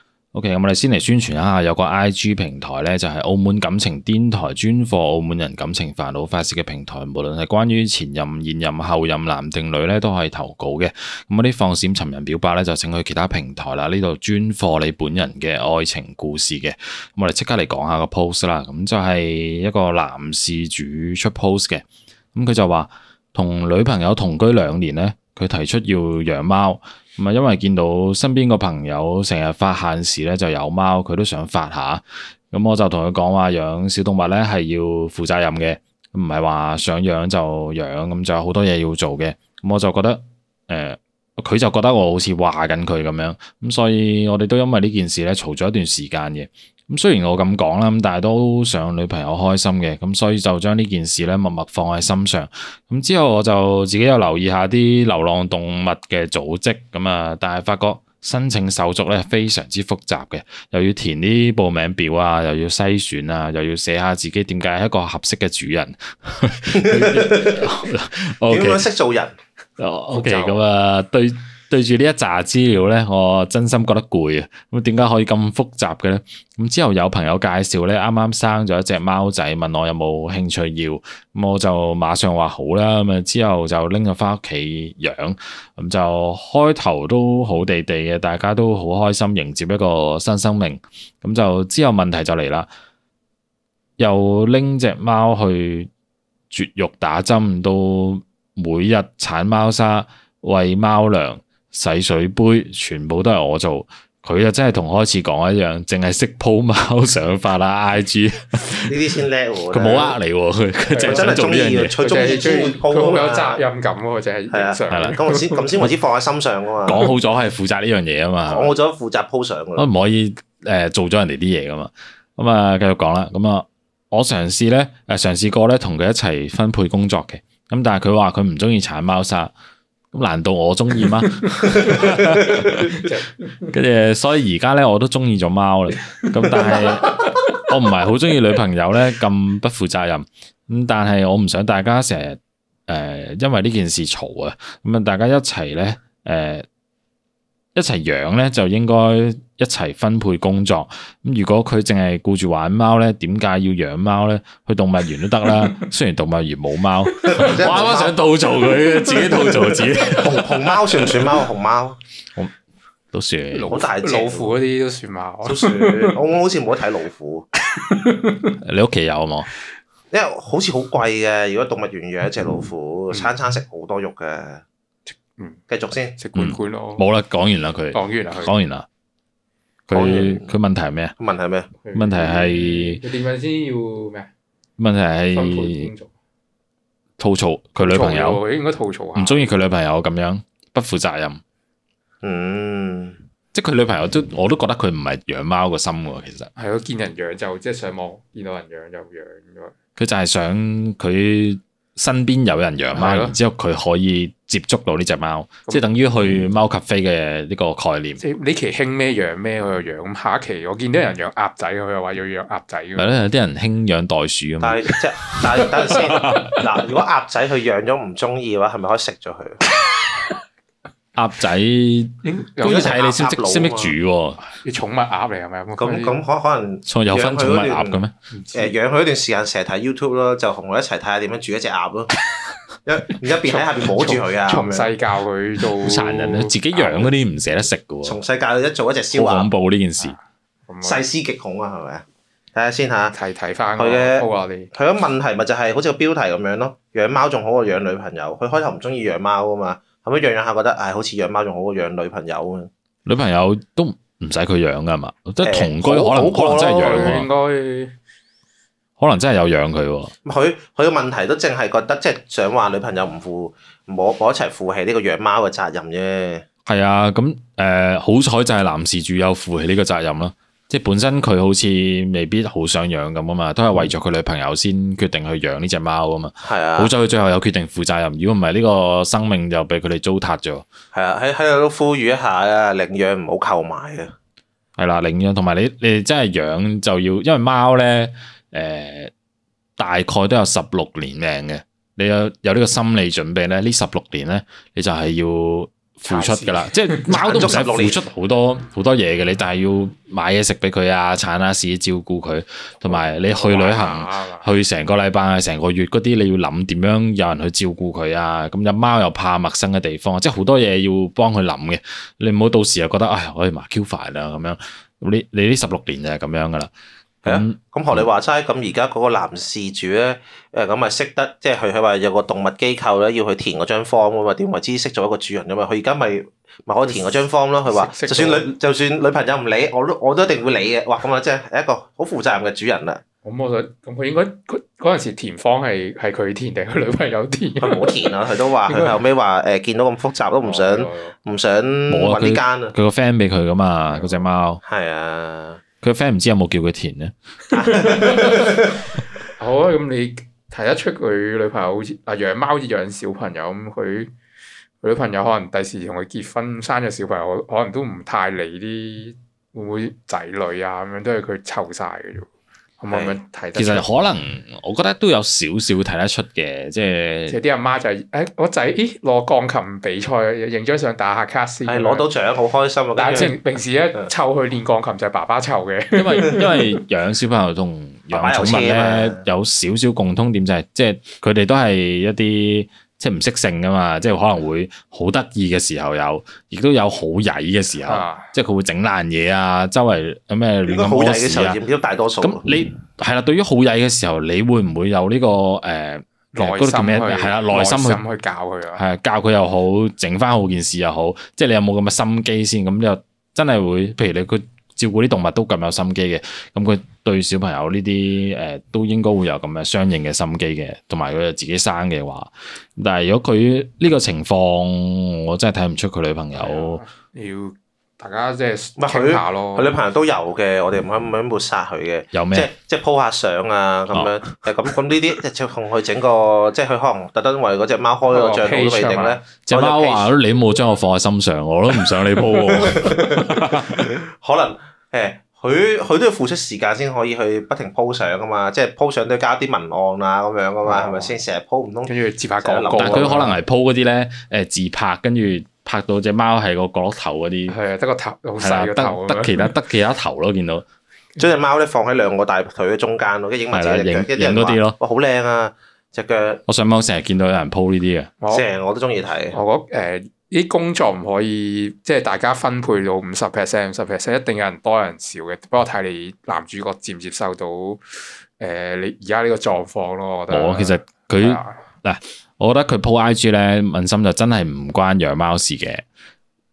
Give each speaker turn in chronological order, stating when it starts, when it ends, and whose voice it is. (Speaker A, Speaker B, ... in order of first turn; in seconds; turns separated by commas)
Speaker A: 0.3-68.8, Speaker B: 66.8-67.7, Speaker B: 68.5-69.4, Speaker A: 69.8-92.7, Speaker C: 70.1-70.6, Speaker A: 94.0-95.9, Speaker A: 96.5-109.0, Speaker B: 108.9-110.2, Speaker A: 109.7-112.0, Speaker C: 110.9-111.2, Speaker B: 111.0-113.6, Speaker C: 112.0-115.9, Speaker B: 114.5-117.0, Speaker A: 114.9-115.2, Speaker A: 116.9-118.7, Speaker B: 118.5-119.9, Speaker A: 119.8-129.5, Speaker A: 130.1-146.7, Speaker C: 132.9-133.3, Speaker C: 136.7-137.0, Speaker A: 147.8-161.1, Speaker B: 157.3-158.2, Speaker B: 160.1-162.0, Speaker A: 163.1-163.8, Speaker C: 163.5-166.2, Speaker B: 163.7-164.5, Speaker B: 165.4-167.5, Speaker C: 167.7-168.5, Speaker A: 168.6-169.5, Speaker B: 170.1-174.6, Speaker C: 175.1-175.6, Speaker B: 175.7-176.2, Speaker C: 176.2-177.1, Speaker A: 176.3-178.9, Speaker C: 177.9-178.5, Speaker A: 179.9-181.1, Speaker B: 179.9-180.6, Speaker B: 181.2-181.7, Speaker C: 181.8-184.3, Speaker A: 181.9-183.0, Speaker A: 184.8-185.9, Speaker C: 185.3-186.1, Speaker A: 187.2-188.4, Speaker C: 187.8-189.5, Speaker A: 189.2-191.4, Speaker B: 192.2-193.2, Speaker A: 193.5-196.5, Speaker C: 196.6-199.7, Speaker A: 200.0-208.2, Speaker C: 202.9-203.4, Speaker C: 208.2-213.2, Speaker A: 213.0-216.6, Speaker B: 214.6-219.6, Speaker C: 215.9-216.6, Speaker A: 221.2-224.4, Speaker C: 222.2-223.0, Speaker B: 222.6-223.9, Speaker C: 224.5-226.2, Speaker B: 225.8-228.0, Speaker A: 226.8-228.1, Speaker C: 228.3-228.7, Speaker B: 228.5-232.1, Speaker B: 232.8-234.9, Speaker C: 233.4-237.1, Speaker A: 235.8-238.2, Speaker B: 238.0-239.5, Speaker A: 239.1-240.2, Speaker C: 240.7-241.1, Speaker B: 240.8-243.2, Speaker C: 243.1-244.7, Speaker B: 243.8-252.7, Speaker A: 253.1-257.3, Speaker B: 255.4-257.2, Speaker C: 256.8-257.9, Speaker A: 259.0-260.1, Speaker B: 260.2-266.5, Speaker A: 266.7-280.6, Speaker B: 276.4-276.9, Speaker B: 280.9-284.1, Speaker A: 284.8-289.1, Speaker A: 289.8-316.7, Speaker C: 296.1-297.2, Speaker B: 297.1-298.0, Speaker C: 302.9-304.5, Speaker A: 317.2-318.1, Speaker B: 317.2-333.0, Speaker C: 327.6-328.5, Speaker C: 333.2-338.1, Speaker B: 337.6-342.7, Speaker C: 340.4-341.2, Speaker A: 341.9-344.6, Speaker C: 343.9-344.2, Speaker B: 344.6-345.6, Speaker A: 345.8-347.1, Speaker C: 347.5-348.7, Speaker B: 347.5-348.8, Speaker C: 349.4-354.1, Speaker C: 354.8-362.3, Speaker C: 362.8-363.9, Speaker B: 362.9-363.2, Speaker A: 363.6-367.4, Speaker C: 367.3-372.1, Speaker B: 371.7-373.4, Speaker C: 373.0-376.8, Speaker A: 375.9-391.6, Speaker B: 378.1-379.2, Speaker C: 387.8-388.3, Speaker B: 390.7-392.5, Speaker A: 392.2-398.0, Speaker C: 396.3-398.8, Speaker A: 398.8-416.8, Speaker C: 416.3-419.8, Speaker B: 418.8-430.1, Speaker A: 422.1-422.5, Speaker C: 428.1-429.2, Speaker A: 429.5-433.9, Speaker B: 432.4-443.2, Speaker C: 440.6-441.1, Speaker C: 441.9-443.4, Speaker A: 442.7-447.6, Speaker C: 447.5-449.5, Speaker A: 448.4-450.6, Speaker B: 451.2-456.4, Speaker A: 453.5-454.8, Speaker A: 456.5-458.1, Speaker B: 458.3-459.4, Speaker C: 459.3-467.8, Speaker C: 468.4-471.6, Speaker A: 470.3-475.8